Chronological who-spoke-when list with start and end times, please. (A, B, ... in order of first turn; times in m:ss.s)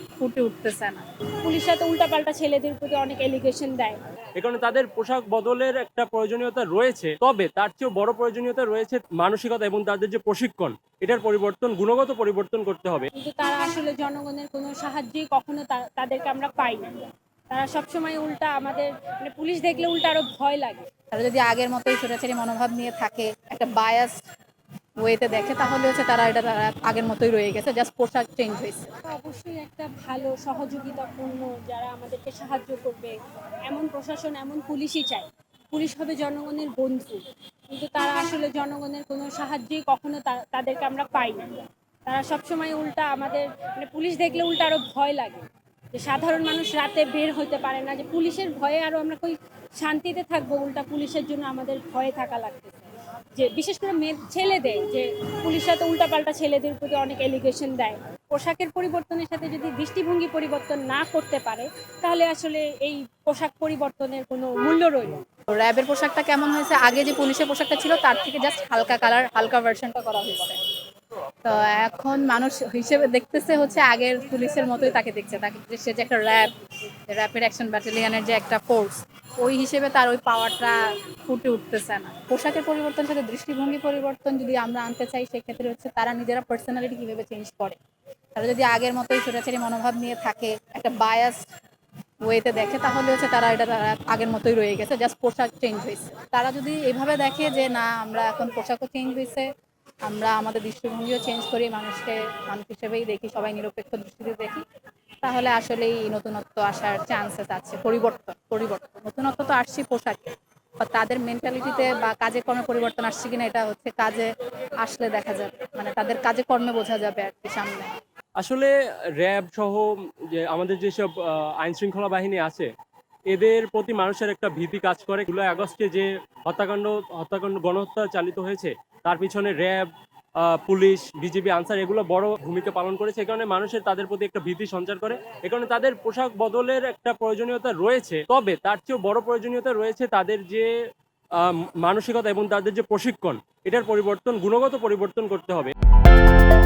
0:00.2-0:01.0 A
0:01.4-0:04.0 B
0:04.4-0:13.1 C
0:13.1-0:17.0 B
0:17.5-0:20.9 B
0:21.1-0:24.2 A
0:25.0-0:28.9 A
0:29.1-0:41.5 B
0:42.0-1:05.2 B
1:05.5-1:10.6 A
1:11.4-1:16.5 A
1:17.1-1:27.8 A
1:28.3-1:31.4 A
1:32.2-1:39.5 A
1:40.0-1:44.6 A
1:45.2-1:57.9 A
1:58.4-2:02.7 C
2:03.3-2:09.9 C
2:10.4-2:20.7 C
2:21.4-2:25.7 C